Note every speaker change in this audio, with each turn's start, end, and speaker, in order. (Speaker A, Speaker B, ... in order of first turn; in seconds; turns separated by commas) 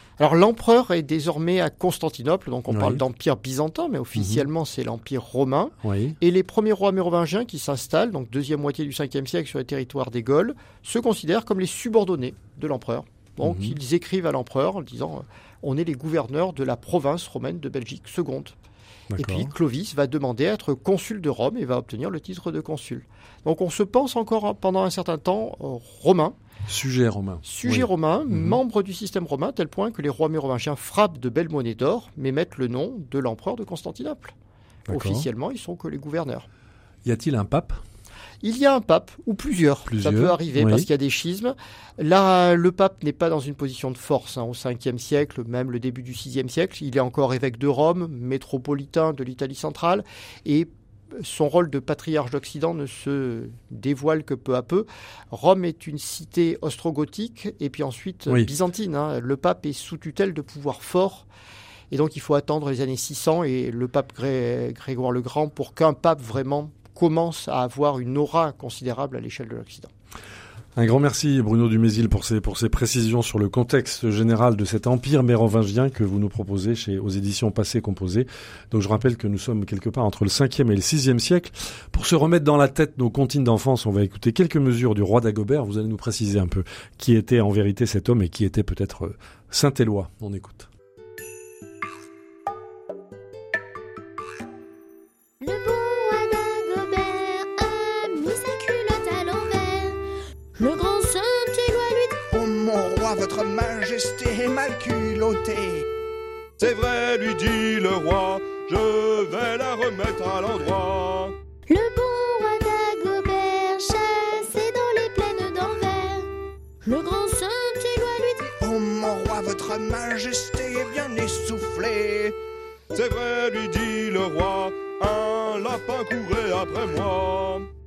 Speaker A: 0.2-18.6, Speaker B: 2.7-3.0, Speaker B: 4.2-4.5, Speaker B: 5.8-6.2, Speaker B: 13.4-13.8, Speaker B: 19.1-19.5, Speaker A: 19.2-26.4, Speaker B: 26.7-28.6, Speaker A: 27.4-34.3, Speaker B: 34.9-35.3, Speaker A: 34.9-36.5, Speaker B: 37.0-37.8, Speaker A: 38.4-61.3, Speaker B: 39.9-40.9, Speaker A: 61.9-69.9, Speaker B: 70.8-90.7, Speaker C: 95.4-100.0, Speaker C: 100.6-102.2, Speaker D: 102.3-105.9, Speaker E: 106.6-111.3, Speaker C: 111.7-116.3, Speaker C: 116.8-118.5, Speaker D: 118.6-122.4, Speaker E: 122.9-127.7